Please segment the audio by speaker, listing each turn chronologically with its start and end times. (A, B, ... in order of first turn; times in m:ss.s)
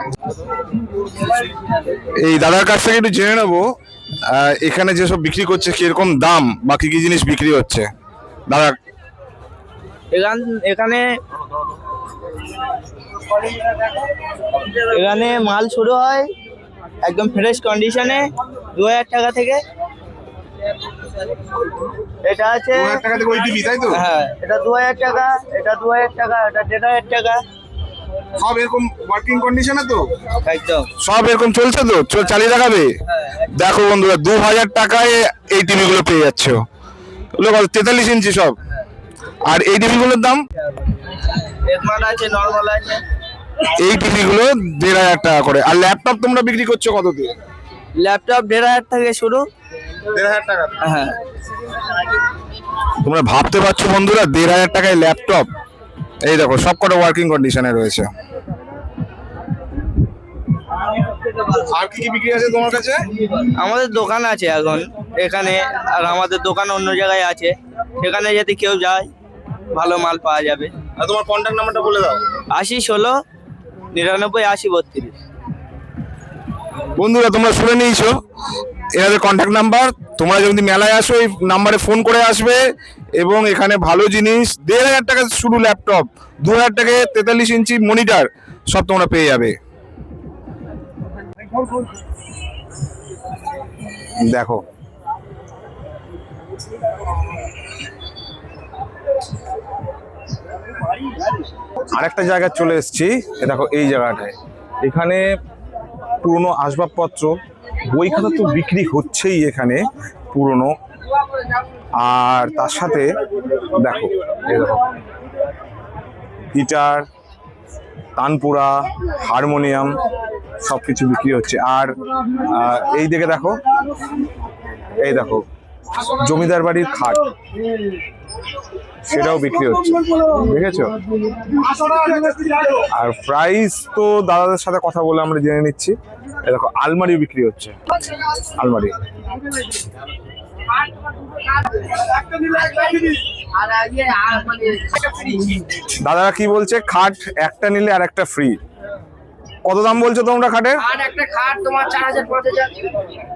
0:02.2-0:03.6 A
0:04.3-0:07.9 A
0:08.5-0:08.8 A
0:10.1-0:11.0 B
0:14.8-0:16.3 B
0:17.0-0:19.6 B
0:22.2-0:23.0 B
0:22.7-0:24.0 A
0:23.9-0:27.4 B
0:28.4-0:30.0 A
0:30.4-0:30.9 B
0:31.0-0:32.9 A
0:33.5-0:36.6 A
0:37.4-0:38.6 A
0:39.5-0:40.4 A
0:41.7-0:43.0 B
0:43.7-0:47.3 A
0:48.0-0:49.4 B
0:50.1-0:50.8 A
0:50.8-0:51.2 B
0:53.0-0:55.5 A
0:56.2-0:58.0 A
1:01.6-1:03.0 A
1:03.6-1:09.1 B
1:09.7-1:10.7 B
1:11.0-1:12.2 A
1:12.5-1:13.2 B
1:13.9-1:15.2 B
1:17.0-1:18.1 A
1:19.0-1:22.6 A
1:23.2-1:29.5 A
1:34.2-1:34.6 A
1:41.9-1:45.2 A
1:46.2-1:47.3 A
1:47.9-1:50.7 A
1:52.0-1:53.1 A
1:53.7-1:54.8 A
1:56.5-1:57.1 A
1:58.2-2:00.0 A
2:00.6-2:03.6 A
2:05.0-2:05.4 A
2:06.0-2:07.3 A
2:09.1-2:11.0 A
2:12.8-2:17.8 A
2:18.6-2:19.0 A
2:22.4-2:25.6 B
2:26.0-2:28.6 A
2:29.7-2:30.8 A
2:31.0-2:32.7 B